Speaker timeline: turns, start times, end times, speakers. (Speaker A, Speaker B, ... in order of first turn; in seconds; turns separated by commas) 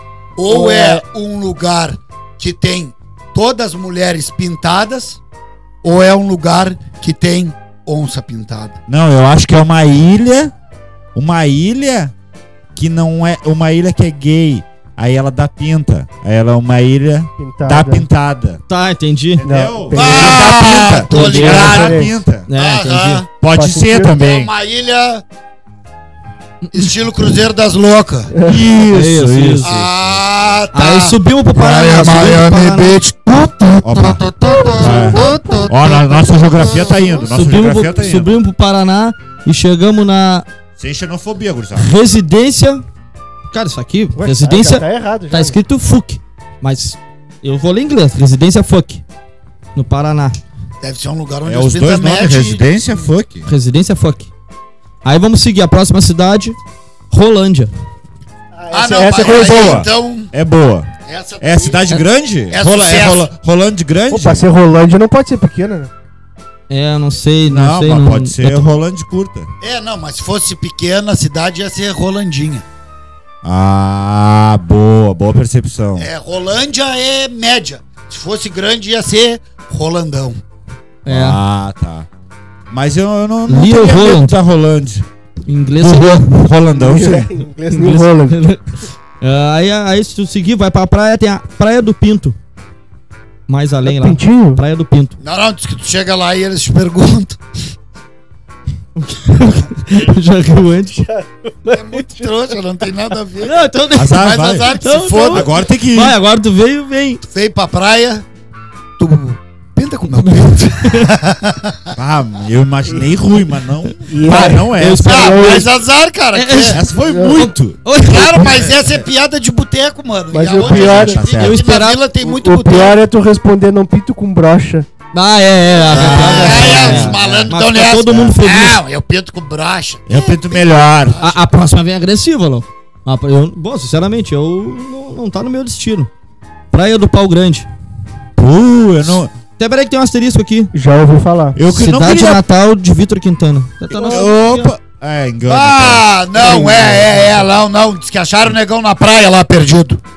Speaker A: 0.4-5.2, Speaker B: 0.5-1.0, Speaker A: 5.8-8.8, Speaker C: 8.9-10.5, Speaker C: 11.2-12.1, Speaker C: 12.8-18.6, Speaker B: 17.4-18.1, Speaker D: 18.7-19.5, Speaker C: 19.4-22.5, Speaker B: 19.4-22.1, Speaker A: 19.9-23.3, Speaker D: 21.2-21.8, Speaker D: 22.5-23.2, Speaker C: 23.4-24.5, Speaker B: 23.5-24.2, Speaker A: 24.2-25.2, Speaker D: 26.6-26.9, Speaker A: 26.7-28.4, Speaker B: 28.4-28.6, Speaker C: 28.4-29.9, Speaker D: 28.9-29.8, Speaker A: 29.6-36.0, Speaker D: 30.7-33.0, Speaker C: 33.8-38.3, Speaker D: 37.3-40.5, Speaker C: 40.8-41.9, Speaker D: 41.8-42.8, Speaker D: 43.5-49.0, Speaker B: 44.2-45.6, Speaker D: 49.8-50.4, Speaker A: 50.8-52.6, Speaker C: 51.5-53.5, Speaker D: 53.5-54.3, Speaker D: 55.0-56.6, Speaker D: 57.1-57.7, Speaker B: 58.5-59.9, Speaker A: 58.7-60.3, Speaker C: 59.2-60.9, Speaker A: 61.1-61.9, Speaker C: 61.4-64.5, Speaker A: 62.5-63.3, Speaker B: 64.1-65.9, Speaker D: 66.7-68.7, Speaker C: 67.5-69.5, Speaker A: 69.6-72.7, Speaker C: 73.4-76.1, Speaker A: 76.0-80.4, Speaker D: 81.1-81.4, Speaker C: 81.1-82.1, Speaker C: 82.7-85.1, Speaker D: 83.5-84.4, Speaker D: 85.5-86.3, Speaker C: 85.8-87.3, Speaker B: 86.7-88.4, Speaker D: 87.7-92.4, Speaker D: 93.5-95.2, Speaker B: 93.8-94.6, Speaker A: 95.2-97.4, Speaker D: 99.0-101.1, Speaker B: 101.1-102.4, Speaker A: 101.7-105.6, Speaker D: 103.4-107.2, Speaker C: 104.0-106.2, Speaker A: 107.3-108.2, Speaker A: 109.0-112.0, Speaker D: 110.2-111.1, Speaker C: 112.0-115.7, Speaker B: 114.1-115.6, Speaker D: 114.8-115.1, Speaker A: 114.9-116.8, Speaker D: 116.3-118.6, Speaker C: 116.7-117.8, Speaker B: 117.0-117.5, Speaker A: 118.0-123.0, Speaker B: 120.3-121.2, Speaker C: 120.6-121.6, Speaker D: 121.4-122.0, Speaker B: 122.2-124.9, Speaker D: 125.1-128.8, Speaker A: 125.9-131.4, Speaker C: 125.9-127.5, Speaker B: 126.2-127.0, Speaker C: 130.1-131.2, Speaker D: 131.2-136.1, Speaker D: 136.7-137.7, Speaker C: 138.4-139.3, Speaker D: 139.6-140.7, Speaker B: 140.7-141.6, Speaker C: 141.6-142.4, Speaker D: 141.7-144.7, Speaker C: 143.9-146.0, Speaker A: 145.5-150.0